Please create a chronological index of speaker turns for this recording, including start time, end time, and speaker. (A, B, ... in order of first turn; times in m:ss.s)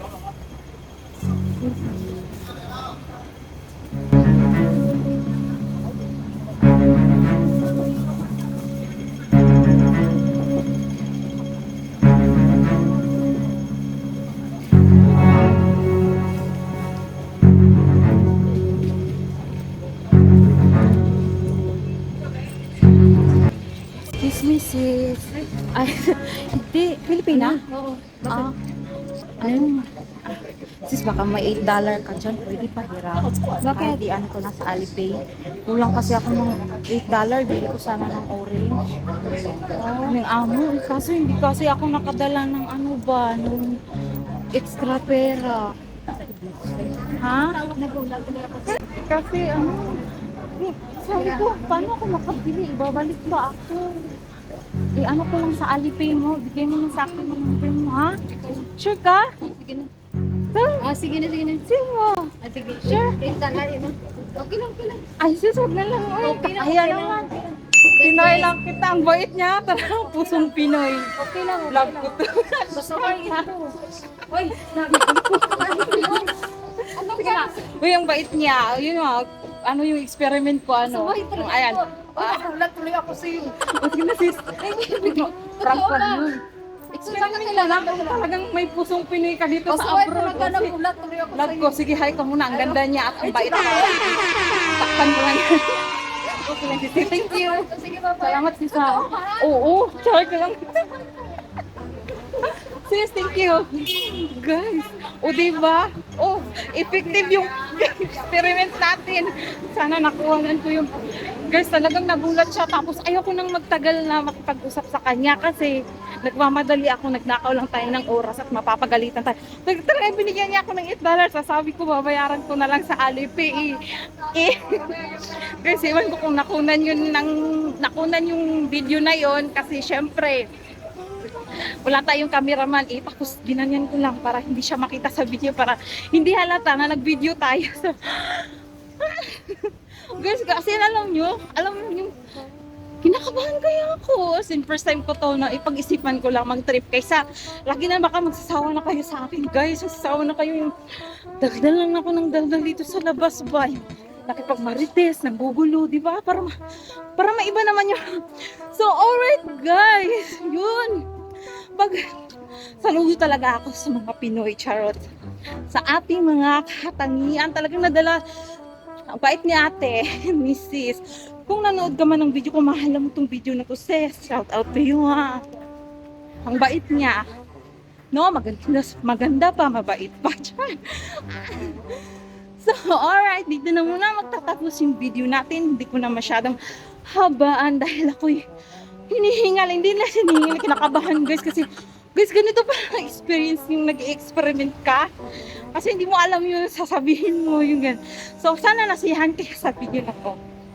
0:24.0-0:27.6 A
0:27.3-0:28.5 B
0:28.3-0:28.6 A
0:29.4-0:43.8 A
0:33.6-0:34.0 B
0:39.7-0:40.1 B
0:44.5-0:45.7 A
0:46.6-0:48.8 B
0:47.0-0:47.7 A
0:48.6-0:54.1 A
0:51.2-0:51.6 B
0:54.9-0:59.3 A
0:59.5-0:59.9 B
1:00.3-1:00.9 A
1:00.8-1:01.7 B
1:01.6-1:03.2 A
1:02.4-1:05.1 B
1:05.2-1:22.5 A
1:06.2-1:08.5 B
1:11.2-1:12.1 B
1:12.7-1:16.3 B
1:16.9-1:17.5 B
1:20.8-1:23.6 B
1:23.6-1:26.4 A
1:24.6-1:26.4 B
1:26.9-1:30.8 A
1:27.0-1:28.1 B
1:29.7-1:31.8 B
1:31.3-2:10.5 A
1:32.5-1:34.1 B
1:36.6-1:39.4 B
2:11.2-2:22.1 A
2:23.0-2:30.7 A
2:31.4-2:36.5 A
2:37.2-2:41.0 A
2:41.7-2:42.1 A
2:42.8-2:45.0 A
2:45.7-2:48.2 A
2:49.1-2:55.4 A
2:56.4-2:57.3 A
2:58.1-3:02.0 A
3:02.6-3:06.6 A
3:07.1-3:08.4 A
3:09.1-3:15.1 A
3:15.7-3:20.4 A